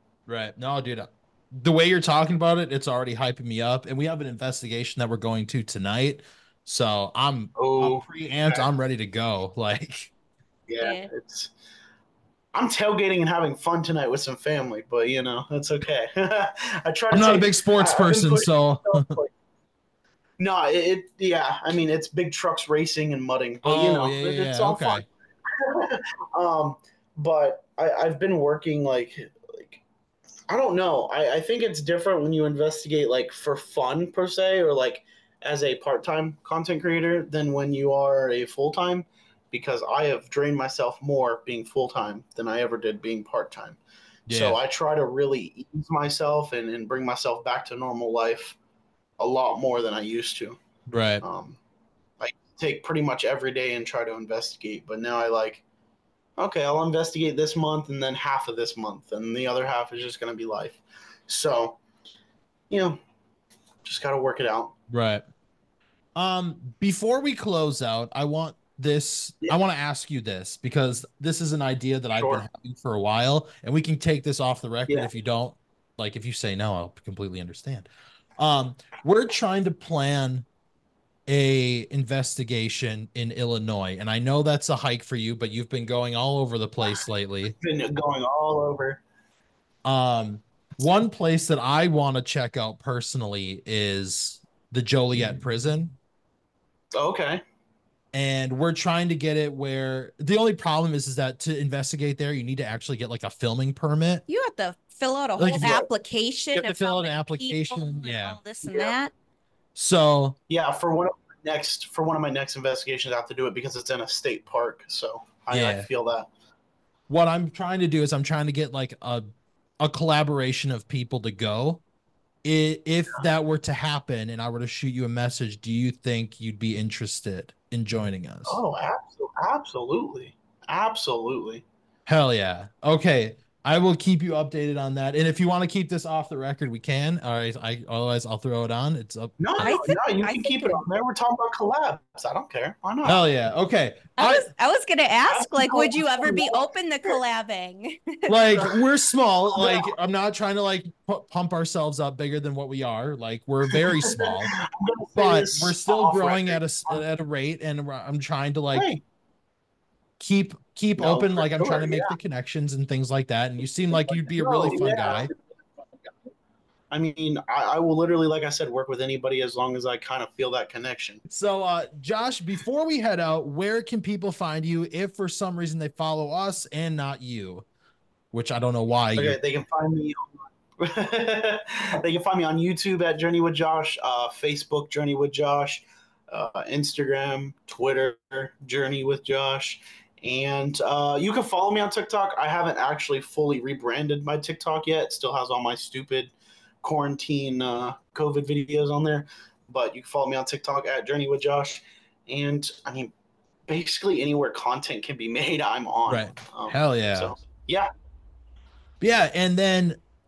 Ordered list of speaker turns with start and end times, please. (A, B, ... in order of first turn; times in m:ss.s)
0:00.3-0:10.1 A
0:07.6-0:08.6 B
0:10.7-0:11.5 B
0:10.8-0:11.1 C
0:12.5-0:19.3 B
0:17.1-0:19.1 A
0:20.4-0:29.8 B
0:23.6-0:25.0 A
0:30.5-0:48.6 B
0:44.3-0:44.6 A
0:49.2-0:50.6 B
0:50.9-0:51.2 A
0:51.2-0:51.6 B
0:52.2-0:55.6 B
0:56.4-1:01.8 B
1:02.7-1:03.0 B
1:03.8-1:04.7 B
1:04.9-1:05.2 A
1:06.1-1:20.4 A
1:12.2-1:12.4 B
1:21.3-1:27.5 A
1:27.5-1:29.0 B
1:29.8-1:35.9 A
1:36.9-1:37.4 B
1:38.1-1:44.2 A
1:44.3-1:49.1 C
1:45.4-1:45.9 A
1:46.5-1:48.4 A
1:48.7-1:48.9 B
1:49.8-1:50.4 A
1:50.5-1:56.3 B
1:55.5-1:55.9 A
1:57.1-1:59.3 A
1:59.8-2:01.8 A
2:02.4-2:08.6 A
2:08.4-2:11.6 B
2:12.0-2:19.8 A
2:19.4-2:23.2 B
2:19.6-2:20.8 C
2:23.0-2:24.5 A
2:24.2-2:28.3 C
2:25.2-2:26.6 B
2:28.3-2:34.6 A
2:29.5-2:29.9 B
2:33.7-2:37.0 B
2:35.2-2:38.9 A
2:38.7-2:39.0 B
2:40.2-2:45.3 A
2:41.0-2:42.1 B
2:44.1-2:45.4 B
2:46.9-2:51.2 B
2:51.3-2:57.6 A
2:58.3-2:59.4 A
2:59.2-3:23.1 B
3:23.7-3:27.9 B
3:26.1-3:27.3 A
3:29.0-3:30.0 A